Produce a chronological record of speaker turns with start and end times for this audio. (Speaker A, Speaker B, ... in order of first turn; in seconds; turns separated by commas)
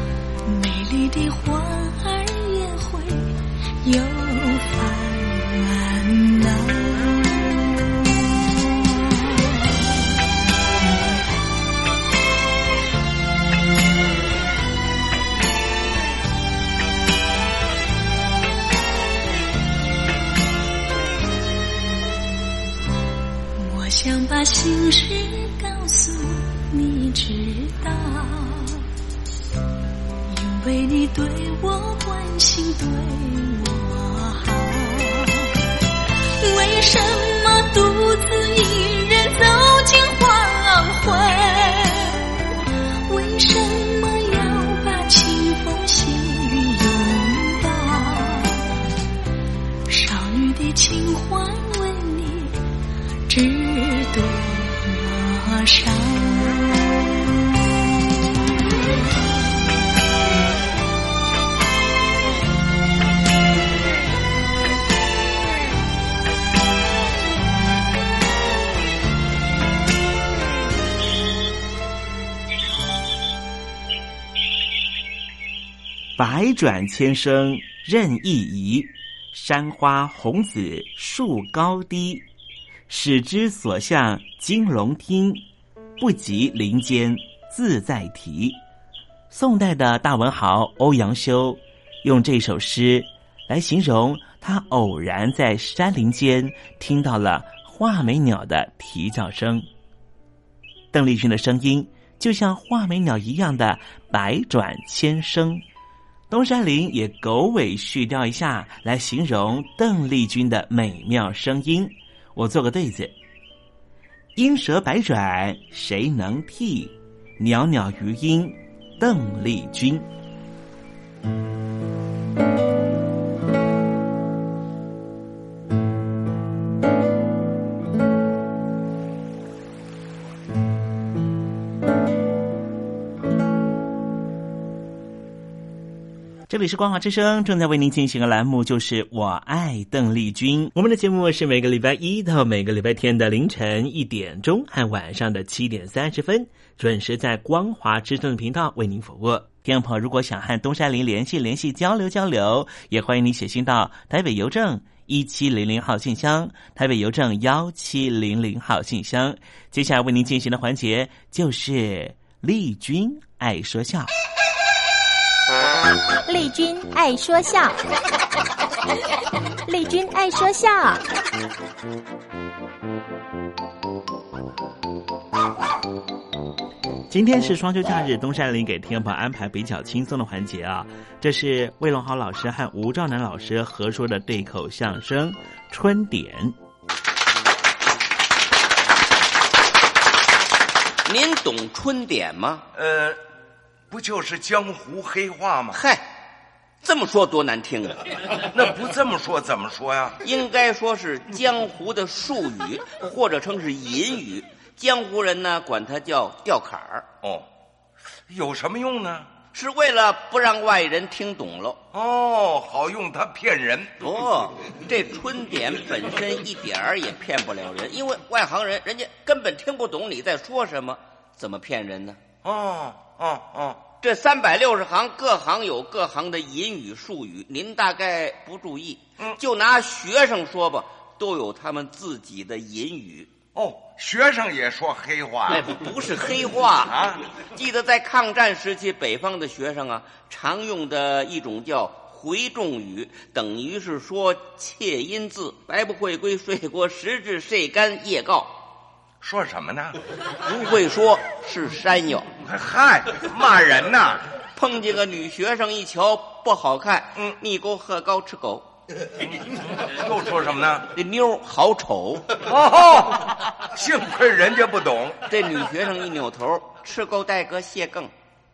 Speaker A: 0.5-7.3, Speaker A: 8.9-9.9, Speaker A: 23.6-28.8, Speaker A: 30.3-35.6, Speaker A: 36.4-42.5, Speaker A: 43.1-48.7, Speaker A: 49.9-52.6, Speaker A: 53.3-56.6, Speaker B: 76.2-82.2, Speaker B: 82.9-85.4, Speaker B: 86.0-88.6, Speaker B: 89.3-99.7, Speaker B: 100.9-105.6, Speaker B: 106.3-113.1, Speaker B: 114.4-120.1, Speaker B: 136.5-164.1, Speaker C: 166.3-167.8, Speaker C: 169.7-171.0, Speaker B: 177.1-186.5, Speaker D: 191.1-192.7, Speaker E: 192.8-193.2, Speaker E: 193.9-195.8, Speaker D: 195.7-196.1, Speaker D: 196.8-198.0, Speaker E: 198.5-200.2, Speaker D: 200.2-207.1, Speaker E: 208.3-209.3, Speaker D: 209.5-211.8, Speaker E: 211.9-213.9, Speaker D: 214.0-222.2, Speaker E: 222.4-223.8, Speaker D: 224.0-233.3, Speaker E: 233.6-235.7, Speaker D: 235.5-236.9, Speaker E: 236.9-237.2, Speaker D: 237.5-248.5, Speaker E: 249.2-250.0, Speaker D: 250.4-252.3, Speaker E: 252.4-254.2, Speaker D: 254.6-258.6, Speaker E: 259.3-260.9, Speaker D: 260.9-262.3, Speaker E: 262.4-265.2, Speaker D: 265.3-268.1